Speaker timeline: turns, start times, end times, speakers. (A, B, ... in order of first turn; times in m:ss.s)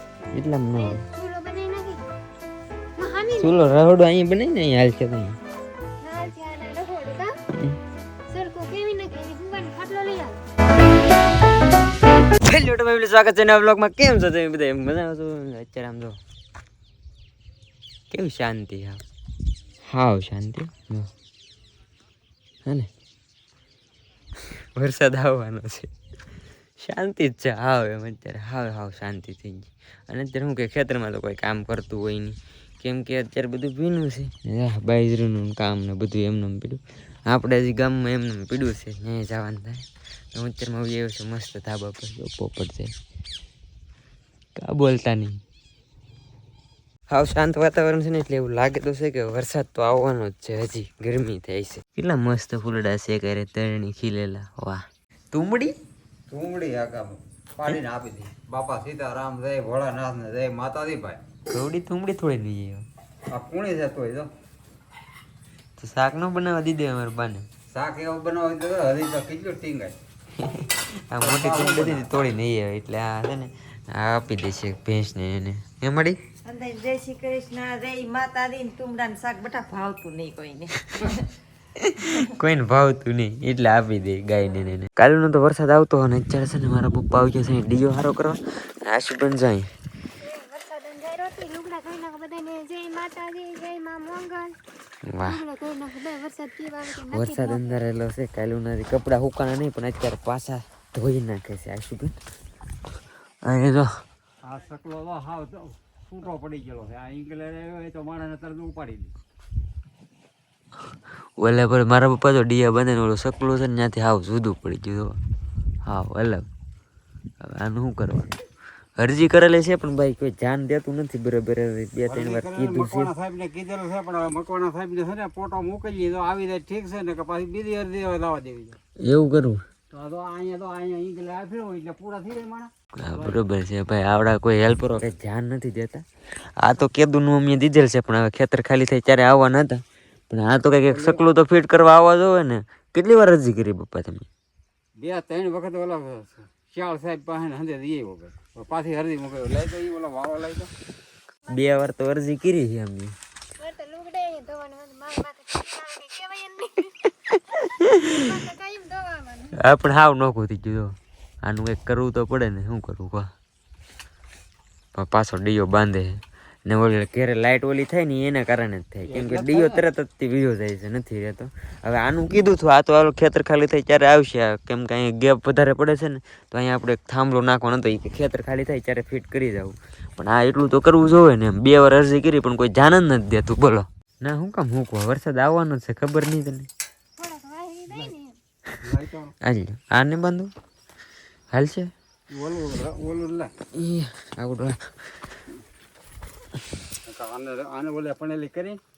0:00.3-0:01.0 A
0:00.8-0:02.0 B
0:03.0-0:03.6 B
0:03.4-0:05.4 A
0:06.0-0:07.3 B
0:08.3-0:10.4 B
0:12.4-0:16.2 A
0:18.1-0:19.0 A
0:19.8-0:21.1 A
0:24.8-0:25.9 A
0:26.8-0:42.9 A
0:44.6-0:45.4 A
0:47.1-0:55.7 A
0:56.3-1:01.2 C
1:01.5-1:02.9 A
1:03.3-1:04.3 C
1:05.8-1:07.5 A
1:07.7-1:10.0 C
1:10.4-1:16.2 A
1:11.2-1:12.1 C
1:16.4-1:21.3 D
1:21.8-1:29.7 A
1:30.2-1:34.6 B
1:35.1-1:35.4 A
1:35.2-1:37.8 B
1:37.1-1:42.1 A
1:43.4-1:43.9 A
1:44.4-1:49.1 C
1:51.4-1:55.2 A
1:55.8-1:56.5 A
1:57.4-1:58.3 A
1:59.0-2:03.1 A
2:02.1-2:08.8 C
2:09.0-2:09.6 A
2:09.9-2:13.4 C
2:13.0-2:16.0 A
2:16.6-2:24.3 A
2:20.9-2:21.2 C
2:25.0-2:30.7 C
2:31.5-2:33.1 A
2:33.6-2:39.6 B
2:39.6-2:43.3 A
2:45.0-3:06.7 A
2:49.1-2:49.8 C
3:07.2-3:08.4 B
3:08.8-3:09.3 C
3:09.4-3:10.5 A
3:11.5-3:11.9 A
3:12.3-3:13.5 C
3:13.7-3:14.8 A
3:17.1-3:18.8 C